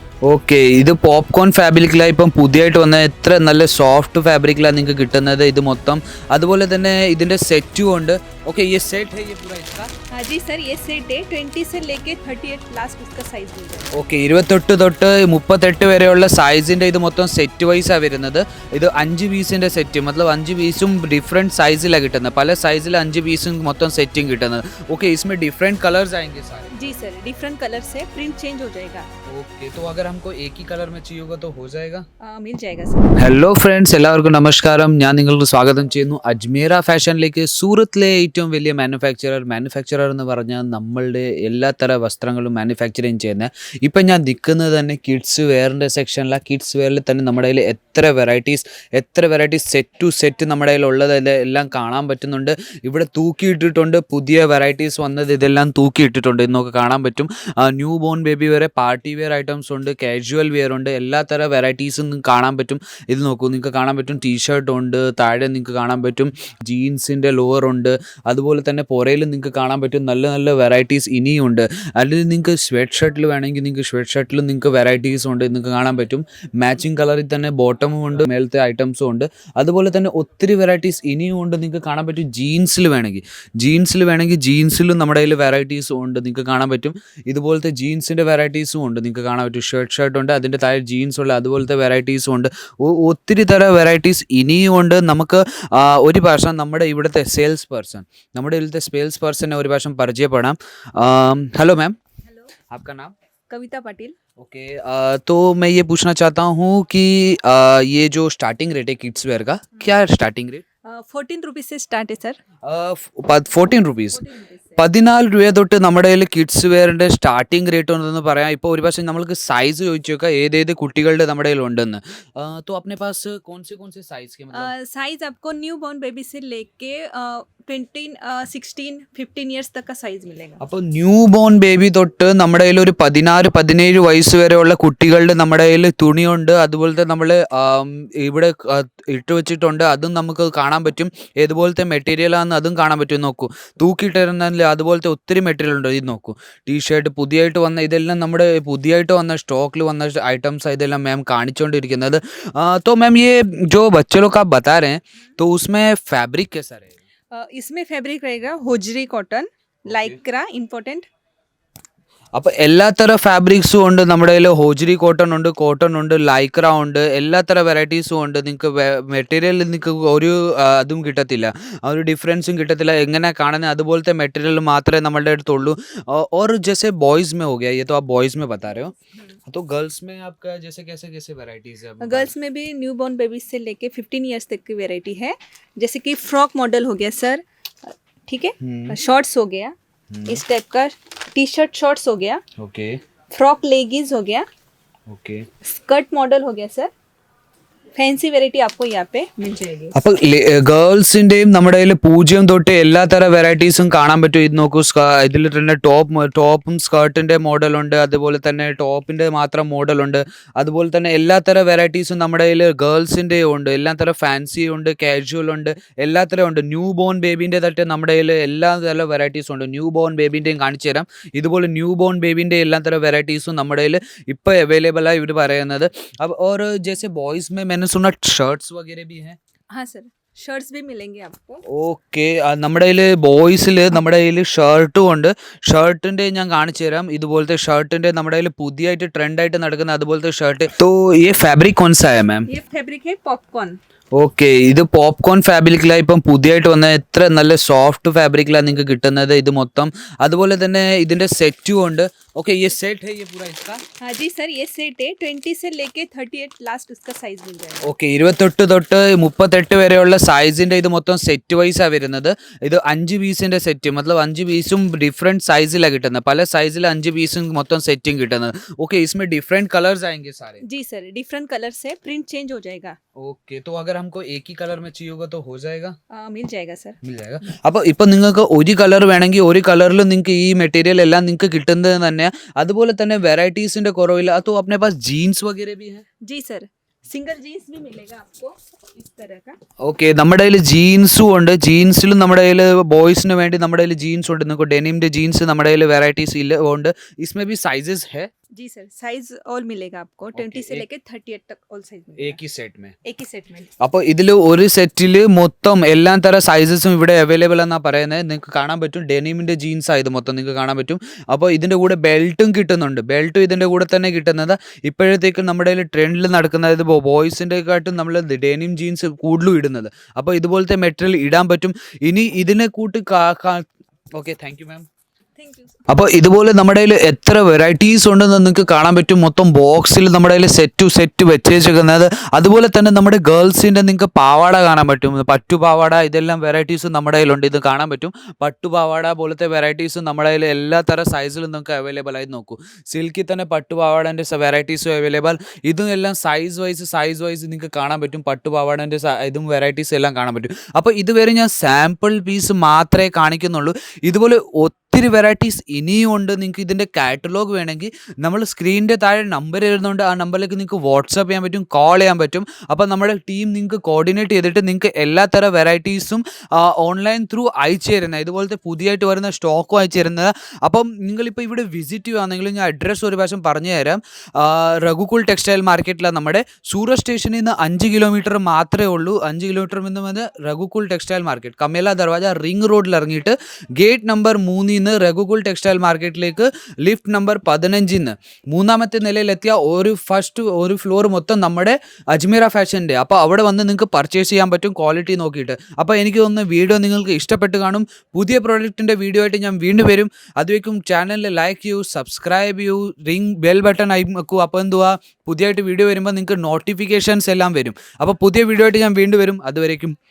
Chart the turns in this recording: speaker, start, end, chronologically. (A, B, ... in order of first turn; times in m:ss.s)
0:00.2-0:09.9 A
0:10.1-0:13.9 B
0:13.9-0:26.7 A
0:26.7-0:29.1 B
0:29.3-0:32.0 A
0:32.2-0:33.2 B
0:33.2-1:42.0 A
1:42.3-1:42.5 B
1:42.7-1:43.1 A
1:43.5-1:44.1 B
1:44.4-1:50.6 A
1:50.8-1:52.4 B
1:52.6-1:54.2 A
1:54.1-1:54.9 B
1:54.8-2:04.7 A
2:04.5-2:10.6 B
2:10.6-2:37.0 A
2:37.3-2:41.1 B
2:39.9-2:40.2 A
2:42.3-2:58.9 A
2:58.9-2:59.4 B
2:59.5-3:02.3 A
3:02.0-3:12.4 B
3:08.6-3:09.0 A
3:10.1-3:10.4 A
3:12.6-3:13.0 A
3:13.3-3:14.5 B
3:15.1-3:15.5 A
3:15.6-3:16.9 B
3:18.0-3:20.0 B
3:19.9-3:49.4 A
3:49.7-3:51.6 B
3:51.6-4:02.5 A
4:02.5-4:03.8 B
4:04.1-4:13.8 A
4:14.0-4:17.9 B
4:17.8-4:30.6 A
4:30.6-4:33.0 B
4:33.2-4:35.9 A
4:36.1-4:37.0 B
4:37.0-4:46.0 A
4:46.2-4:49.6 B
4:49.8-4:58.3 A
4:58.5-5:02.4 B
5:00.3-5:00.8 A
5:02.2-5:02.9 A
5:03.0-5:03.7 B
5:03.8-5:24.9 A
5:25.4-5:25.8 B
5:25.9-6:49.9 A